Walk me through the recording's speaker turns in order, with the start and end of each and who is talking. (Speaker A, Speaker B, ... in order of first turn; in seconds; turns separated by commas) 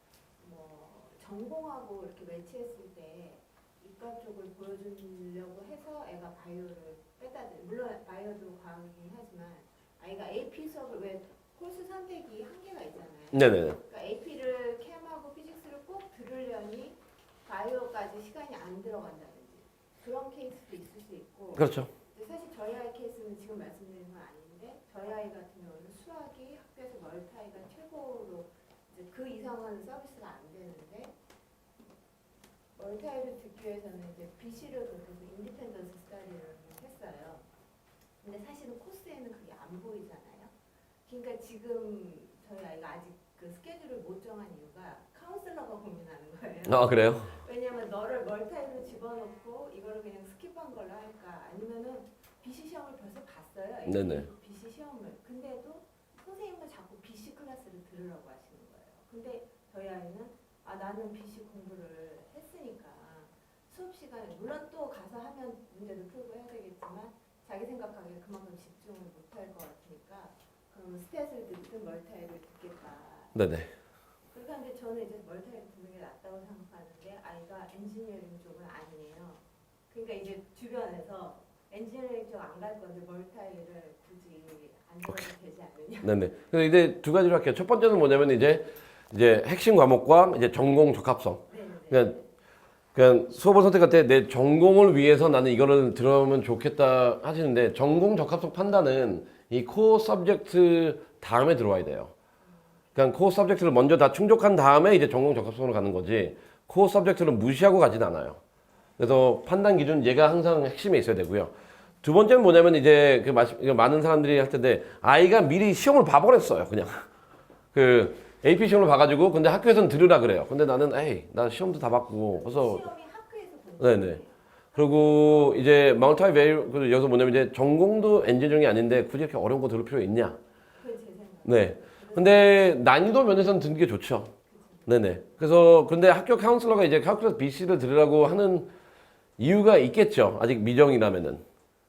Speaker A: 0.4-31.1, Speaker B: 13.3-13.8, Speaker B: 21.5-21.9, Speaker A: 32.8-37.5, Speaker A: 38.2-40.5, Speaker A: 41.0-73.3, Speaker B: 46.6-47.4, Speaker B: 53.8-54.3, Speaker B: 73.3-73.7, Speaker A: 74.3-86.5, Speaker B: 86.0-92.2, Speaker A: 91.5-92.2, Speaker B: 92.9-102.1, Speaker B: 103.0-108.4, Speaker B: 109.0-111.5, Speaker B: 112.0-117.0, Speaker B: 117.7-122.8, Speaker A: 122.3-125.8, Speaker B: 123.8-124.2, Speaker B: 124.7-130.4, Speaker A: 130.8-132.7, Speaker B: 131.4-134.3, Speaker A: 134.5-135.2, Speaker B: 134.8-138.7, Speaker B: 139.4-141.4